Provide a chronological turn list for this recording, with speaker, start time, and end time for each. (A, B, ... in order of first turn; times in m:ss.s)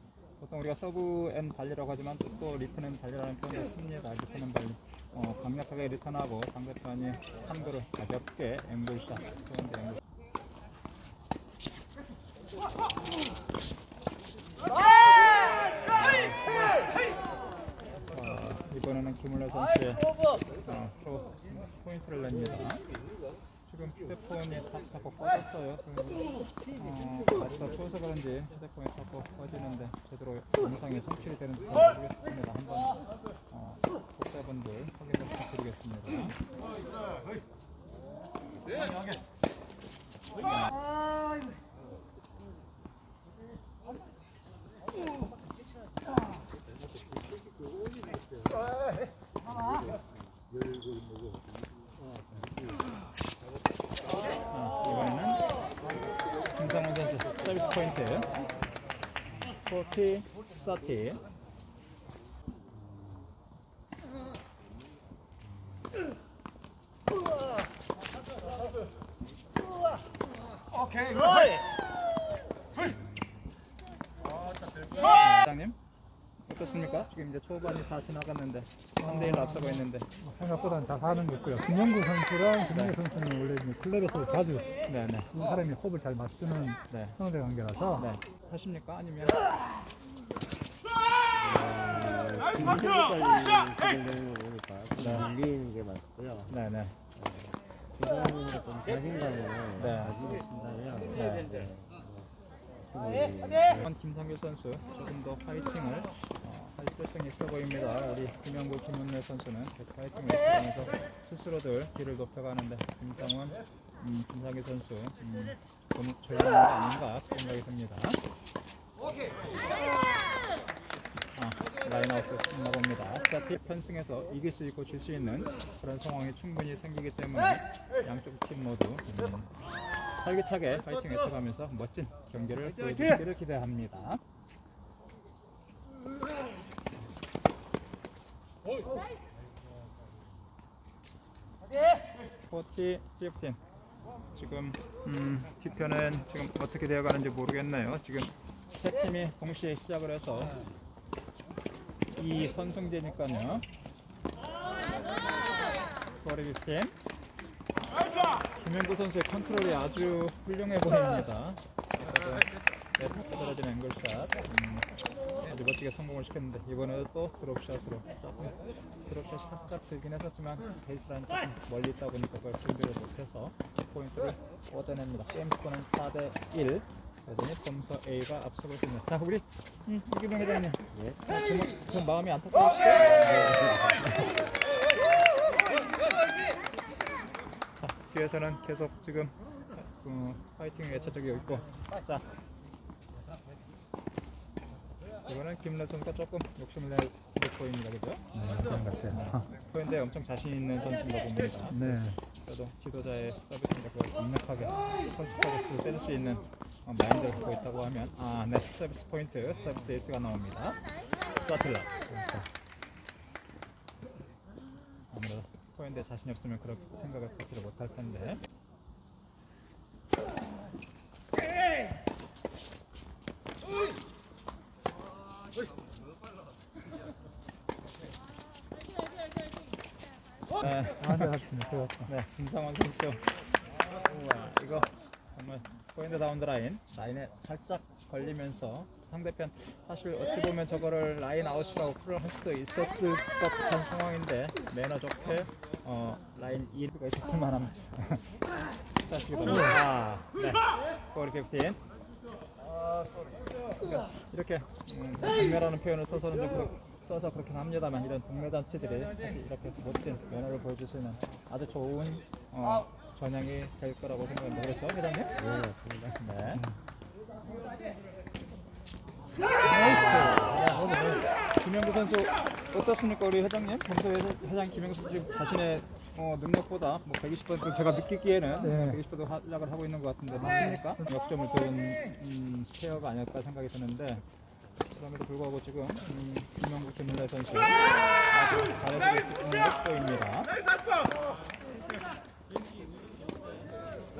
0:00.4-0:10.0 A
0:15.9-0:16.8 A
0:18.1-0:22.8 A
0:23.6-0:36.4 A
0:54.5-0:55.4 A
0:56.5-0:58.3 A
0:59.5-1:01.2 A
1:15.1-1:15.8 A
1:16.4-1:20.1 A
1:19.0-1:24.7 B
1:24.8-1:25.3 A
1:25.3-1:28.0 B
1:26.9-1:27.2 A
1:28.0-1:29.4 A
1:31.3-1:36.6 C
1:35.0-1:35.3 A
1:36.5-1:37.0 A
1:37.1-1:42.3 C
1:39.8-1:40.2 A
1:41.1-1:41.5 A
1:42.8-1:43.8 C
1:43.8-1:58.2 A
2:01.4-2:09.6 A
2:10.1-2:14.2 A
2:22.5-2:23.6 A
2:24.3-2:30.6 A
2:32.2-2:33.6 A
2:36.2-2:36.9 A
2:38.5-2:44.9 A
2:45.4-3:04.3 A
3:00.9-3:01.2 C
3:03.1-3:04.0 C
3:07.8-3:09.3 A
3:10.0-3:12.2 A
3:15.2-3:18.2 A
3:18.3-3:19.4 B
3:19.1-3:21.8 A
3:21.7-3:22.2 B
3:22.4-3:32.0 A
3:32.1-3:32.4 B
3:35.1-3:38.4 A
3:50.6-3:51.3 A
3:51.0-3:52.1 B
3:52.0-3:53.2 A
3:54.0-4:08.2 A
4:09.0-4:11.8 A
4:09.4-4:09.7 B
4:13.8-4:25.3 A
4:25.4-4:26.3 C
4:26.2-4:26.6 A
4:29.7-4:31.2 B
4:29.8-4:30.5 C
4:30.5-4:30.8 A
4:31.5-4:44.2 A
4:38.6-4:39.0 B
4:40.4-4:41.0 B
4:44.9-4:50.5 A